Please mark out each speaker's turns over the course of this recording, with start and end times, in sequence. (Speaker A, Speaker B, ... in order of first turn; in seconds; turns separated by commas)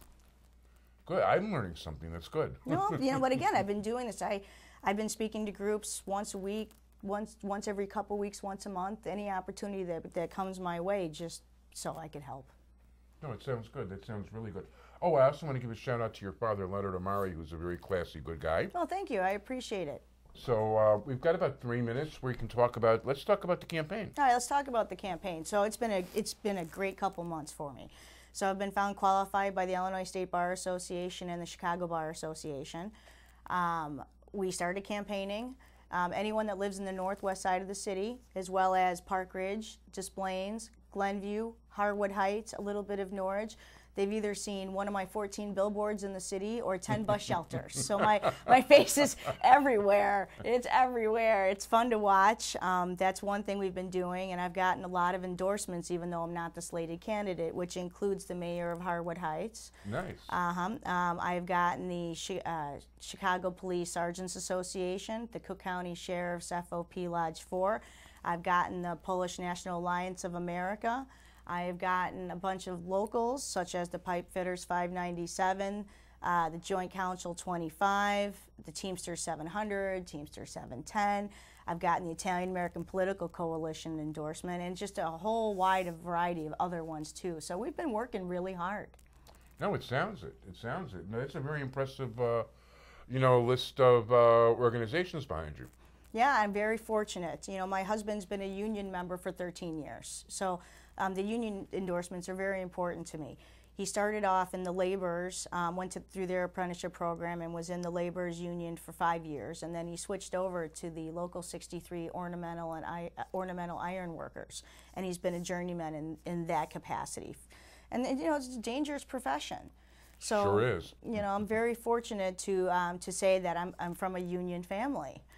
Speaker A: 1.1-3.0, Speaker B: 2.6-12.5, Speaker A: 13.2-18.7, Speaker B: 18.7-20.0, Speaker A: 20.3-24.1, Speaker B: 24.1-32.9, Speaker B: 33.5-59.7, Speaker A: 59.8-60.3, Speaker B: 60.3-89.0, Speaker A: 89.6-92.5, Speaker A: 93.1-95.7, Speaker B: 96.1-125.2, Speaker A: 120.2-121.0